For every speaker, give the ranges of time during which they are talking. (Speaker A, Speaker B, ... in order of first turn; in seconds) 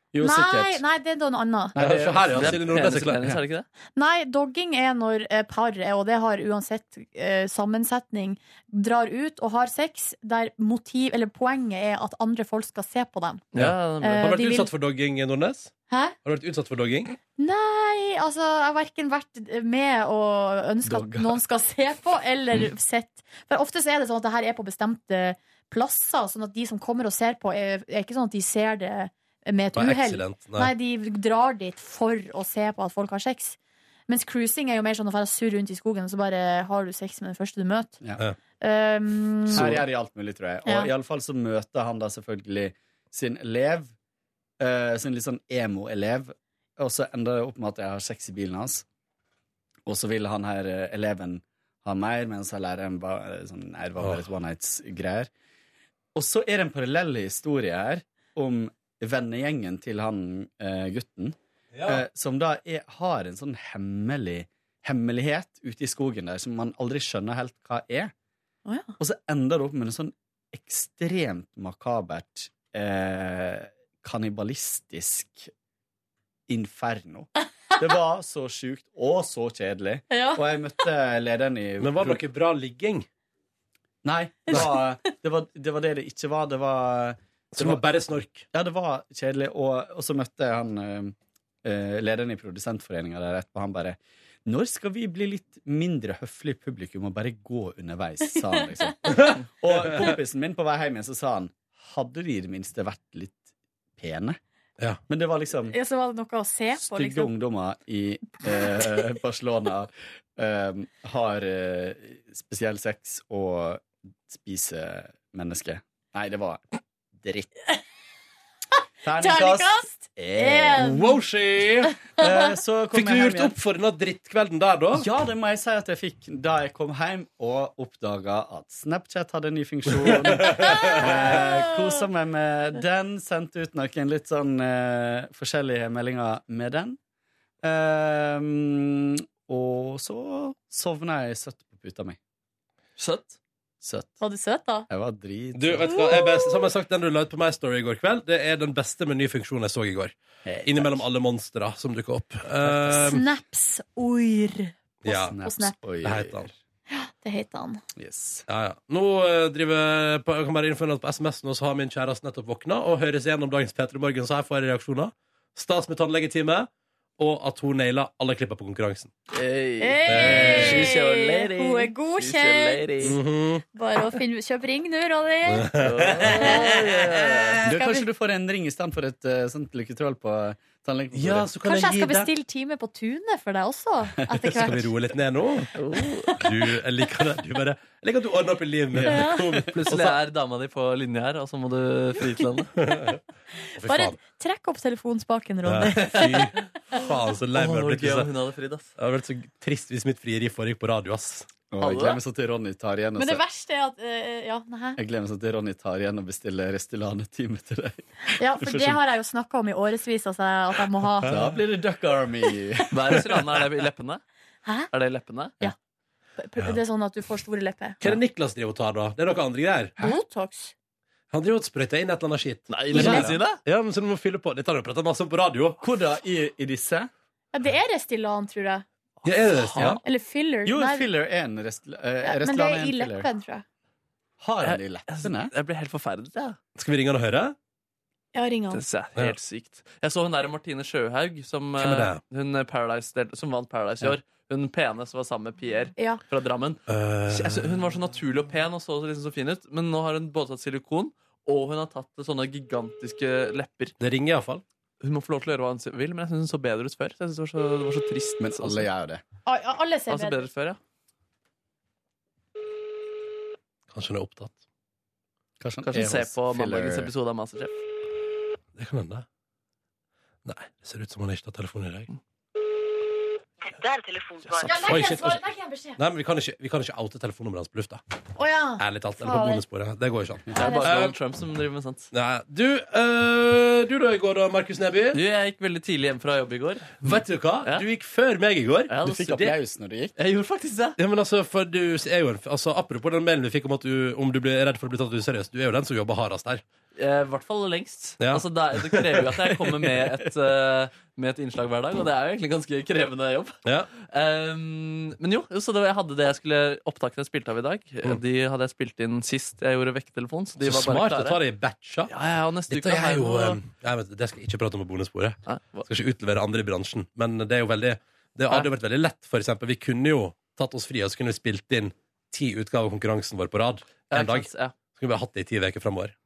Speaker A: 0.1-0.8, 1.7-3.4, 20.9-21.4, 39.5-43.9, 44.6-48.9, 49.9-55.3, 56.1-68.1, 69.0-75.5, 76.5-82.2, 84.0-87.8, 88.5-103.5, 104.0-104.4, 105.1-105.8, 106.8-116.6, 117.2-117.5, 119.0-120.9, 122.2-123.6, 125.0-137.0, 137.6-142.2, 143.8-144.2, 144.9-146.1, 150.5-151.0, 152.6-153.1, 155.3-156.5, 158.0-158.5, 177.7-181.5, 188.9-189.3, 201.7-203.4, 205.0-209.0, 211.2-213.6, 225.8-227.1, 230.7-233.3, 234.4-235.5, 258.4-259.2, 265.6-267.1, 289.0-290.1, 299.8-300.3
Speaker B: 0.2-1.8, 4.0-13.4, 14.0-14.7, 15.9-16.1, 17.4-33.6, 34.1-38.0, 38.6-39.8, 68.7-68.9, 80.1-80.4, 84.5-84.7, 105.7-107.3, 108.5-108.8, 119.2-121.2, 122.2-122.4, 130.4-131.8, 144.2-144.9, 145.9-146.7, 152.9-155.8, 156.9-157.8, 169.8-173.1, 173.8-175.7, 176.3-176.7, 177.7-178.1, 181.6-184.9, 189.0-189.5, 193.8-196.6, 203.2-205.0, 208.3-211.4, 216.4-218.0, 220.0-220.7, 222.9-223.3, 227.5-228.8, 230.0-231.1, 232.2-233.6, 238.3-238.8, 259.5-260.5, 274.6-276.0, 278.4-279.6, 280.5-281.0
Speaker C: 1.8-3.2, 13.6-15.7, 16.2-17.2, 29.8-30.7, 61.7-62.0, 81.8-83.1, 87.5-88.5, 120.8-121.9, 122.9-125.1, 130.4-131.0, 145.6-153.2, 155.0-155.3, 156.0-156.5, 158.5-169.1, 170.1-170.9, 173.0-173.6, 175.5-177.6, 181.1-182.3, 184.4-185.7, 186.4-190.2, 192.8-193.2, 193.8-194.2, 195.7-198.3, 199.0-201.5, 218.0-219.9, 221.3-225.8, 229.2-230.0, 236.8-237.6, 241.8-242.2, 246.9-247.7, 254.0-254.6, 263.9-264.6, 268.8-269.3, 270.4-272.1, 274.8-275.4, 276.0-278.0, 278.8-281.2, 282.1-285.2, 287.0-289.4, 291.0-296.6, 298.2-299.3, 310.6-312.1, 312.7-326.1
Speaker D: 2.4-3.7, 13.5-14.2, 143.0-143.4, 169.3-173.2, 175.8-177.6, 185.8-186.4, 189.7-192.7, 196.1-196.6, 197.6-198.9, 201.8-202.2, 212.9-214.2, 214.9-215.6, 222.7-223.6, 229.6-229.9, 234.6-236.6, 238.7-253.9, 255.0-258.9, 260.1-260.8, 265.9-267.8, 274.5-275.0, 280.6-282.1, 285.1-287.9, 288.9-289.5, 290.2-291.0, 297.0-311.4, 312.1-313.6, 315.5-315.9, 324.1-324.8